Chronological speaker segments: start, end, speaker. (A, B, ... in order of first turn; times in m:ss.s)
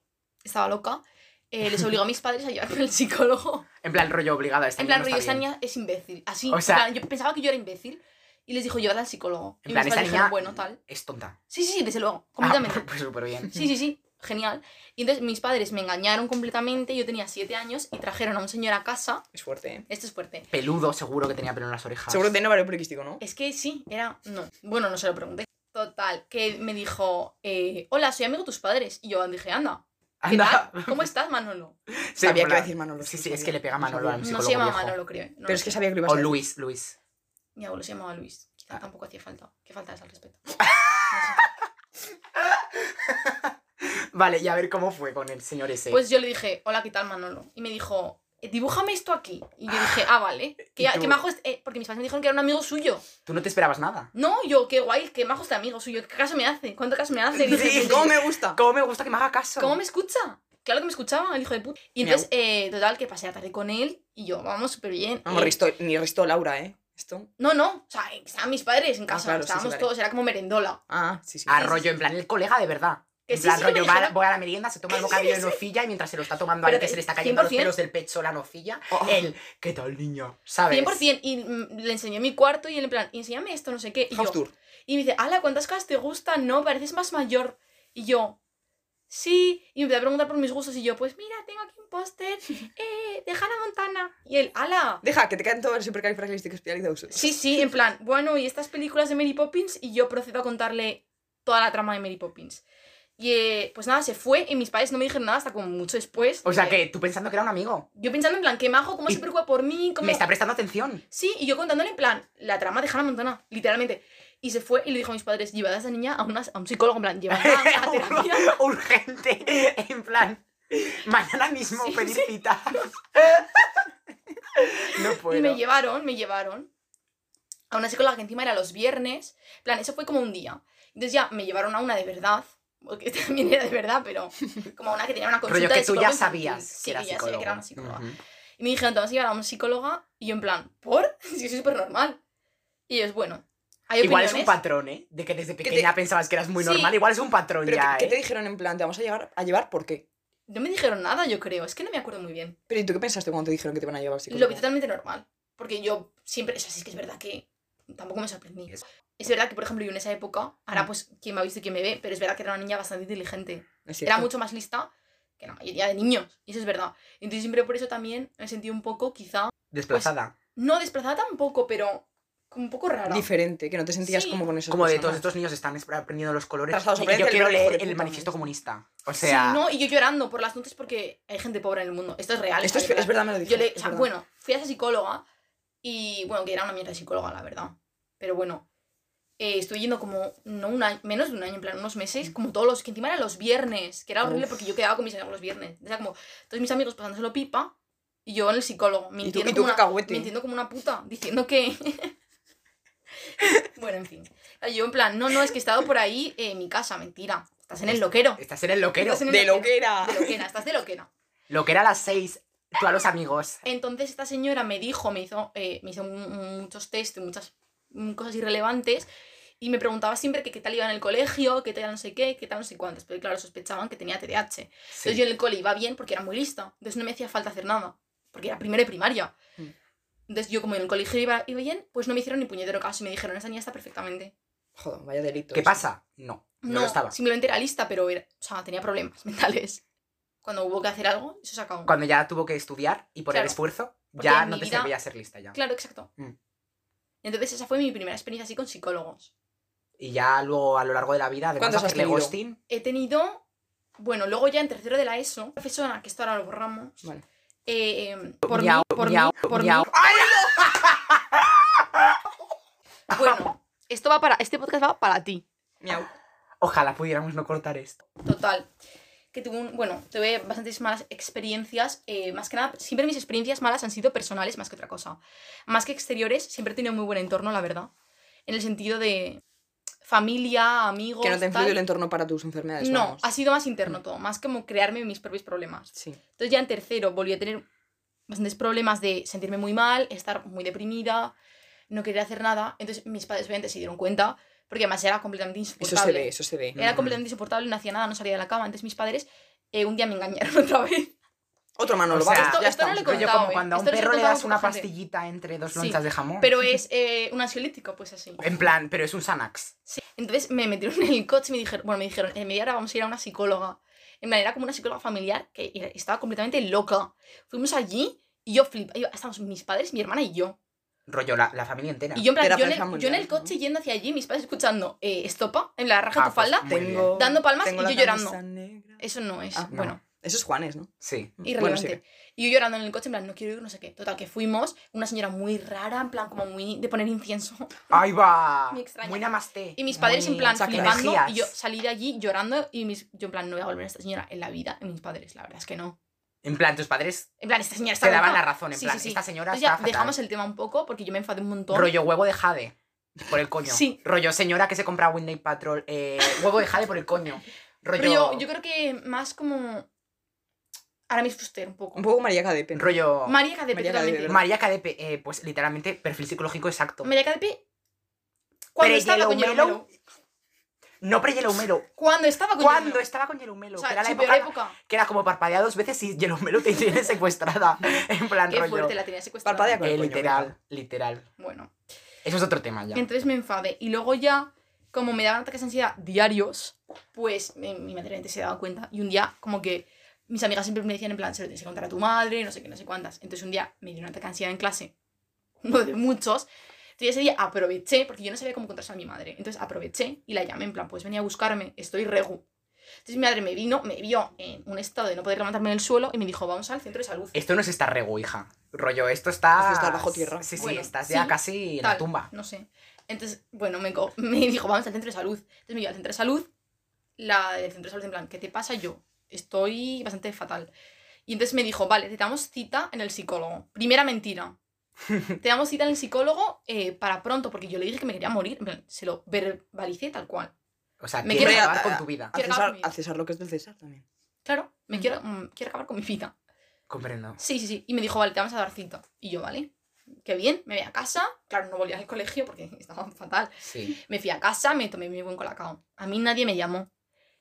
0:00.4-0:03.7 A
0:03.8-0:05.4 B
0:04.8-0:10.8 A
0:06.5-0:06.9 B
0:09.7-0:11.4 B
0:11.5-0:12.9 A
0:12.4-0:13.6 B
0:13.5-0:19.2 A
0:19.3-0:19.9 C
0:19.9-0:20.5 A
0:20.5-0:22.3 B
0:22.1-0:23.2 C
0:23.2-0:31.8 A
0:30.2-0:31.1 B
0:32.0-0:35.0 B
0:32.2-0:34.3 C
0:34.2-0:35.8 A
0:35.5-0:36.4 C
0:36.1-0:37.0 B
0:37.6-0:40.6 A
0:40.6-0:41.5 B
0:41.1-0:41.4 A
0:42.4-0:46.0 B
0:45.9-0:53.0 A
0:49.7-0:50.0 B
0:53.3-0:54.1 B
0:54.1-0:58.1 A
0:57.3-0:58.6 C
0:57.4-0:59.8 B
0:59.6-1:05.6 A
1:05.2-1:07.3 C
1:07.4-1:10.8 A
1:09.1-1:09.9 C
1:10.9-1:11.6 C
1:11.5-1:21.0 B
1:11.5-1:11.8 A
1:13.3-1:14.2 A
1:14.9-1:15.6 A
1:16.6-1:17.7 A
1:18.9-1:19.3 C
1:20.7-1:28.4 A
1:24.1-1:24.5 C
1:29.1-1:35.0 A
1:35.0-1:37.6 C
1:37.1-1:42.6 A
1:43.2-1:46.8 A
1:46.4-1:47.9 B
1:48.0-1:50.2 A
1:50.0-1:51.0 B
1:51.1-1:58.6 A
1:57.3-2:03.7 B
2:01.8-2:02.9 A
2:04.6-2:05.6 B
2:05.2-2:06.7 A
2:07.7-2:18.1 A
2:15.5-2:18.2 B
2:18.6-2:22.2 A
2:22.9-2:24.6 A
2:24.0-2:28.2 B
2:25.6-2:25.9 C
2:26.6-2:27.0 A
2:27.6-2:30.0 C
2:30.5-2:32.6 A
2:32.7-2:34.6 C
2:34.3-2:53.3 A
2:43.9-2:44.3 C
2:49.7-2:50.3 B
2:53.1-2:55.3 C
2:54.0-2:54.5 A
2:54.7-2:59.6 B
2:56.7-2:58.4 C
2:59.2-3:05.2 A
3:02.6-3:04.1 C
3:05.8-3:08.6 A
3:09.4-3:17.7 A
3:14.2-3:14.7 C
3:18.2-3:22.2 A
3:19.2-3:20.3 C
3:23.4-3:28.4 A
3:27.9-3:29.3 B
3:29.0-3:31.1 A
3:29.2-3:30.4 C
3:31.5-3:33.6 B
3:33.6-3:39.1 A
3:39.6-3:49.4 A
3:44.9-3:45.2 B
3:50.3-3:54.3 A
3:54.8-3:55.8 C
3:55.5-3:57.1 B
3:56.6-3:59.8 A
4:00.4-4:02.0 A
4:01.9-4:05.6 B
4:03.3-4:03.6 A
4:04.1-4:04.9 A
4:05.5-4:06.1 A
4:07.2-4:09.3 A
4:10.0-4:12.6 B
4:11.6-4:12.3 C
4:12.7-4:13.4 A
4:14.0-4:17.0 A
4:17.7-4:20.0 A
4:18.5-4:22.2 B
4:23.1-4:23.4 B
4:23.1-4:25.4 A
4:25.8-4:26.1 C
4:26.6-4:28.0 B
4:28.2-4:28.7 A
4:29.3-4:37.9 A
4:38.5-4:39.4 A
4:40.0-4:41.8 A
4:41.2-4:43.3 C
4:42.8-4:47.7 A
4:48.3-4:51.3 A
4:51.9-5:01.2 A
4:55.8-4:56.8 C
4:56.8-4:57.2 B
5:01.8-5:03.4 C
5:02.1-5:06.5 B
5:02.2-5:04.9 A
5:05.7-5:08.5 A
5:08.4-5:09.7 B
5:09.9-5:20.6 A
5:21.1-5:22.2 B
5:22.2-5:28.4 A
5:22.4-5:23.6 C
5:26.2-5:27.1 B
5:26.7-5:29.0 C
5:29.0-5:30.0 A
5:29.6-5:30.9 C
5:31.0-5:31.3 B
5:31.4-5:38.0 A
5:31.4-5:32.0 C
5:37.9-5:39.8 B
5:38.7-5:46.0 A
5:40.0-5:41.1 C
5:40.6-5:41.5 B
5:46.4-5:47.3 B
5:47.4-5:51.9 A
5:48.0-5:50.2 B
5:51.7-5:52.8 B
5:53.3-5:58.4 B
5:53.7-5:54.0 A
5:56.2-5:56.5 A
5:58.0-5:59.9 A
6:01.1-6:02.0 A
6:02.0-6:02.9 C
6:02.8-6:03.4 B
6:03.3-6:04.4 A
6:03.7-6:04.4 C
6:04.3-6:07.1 B
6:07.0-6:07.6 A
6:08.8-6:09.9 A
6:08.8-6:09.8 B
6:11.0-6:11.9 B
6:12.0-6:13.0 A
6:12.6-6:19.0 B
6:13.8-6:14.8 A
6:18.5-6:19.8 A
6:19.4-6:20.5 C
6:19.8-6:21.3 B
6:21.4-6:21.7 A
6:22.2-6:23.0 B
6:22.9-6:34.9 A
6:35.6-6:42.4 A
6:43.0-6:47.4 A
6:47.3-6:52.3 B
6:49.6-6:50.8 C
6:50.6-6:56.5 A
6:57.2-7:00.7 A
7:01.3-7:04.6 A
7:05.4-7:10.5 A
7:11.0-7:12.3 B
7:11.2-7:12.9 A
7:11.3-7:14.0 C
7:14.4-7:16.4 A
7:16.9-7:17.4 B
7:17.4-7:19.7 A
7:20.2-7:26.9 A
7:23.6-7:24.0 B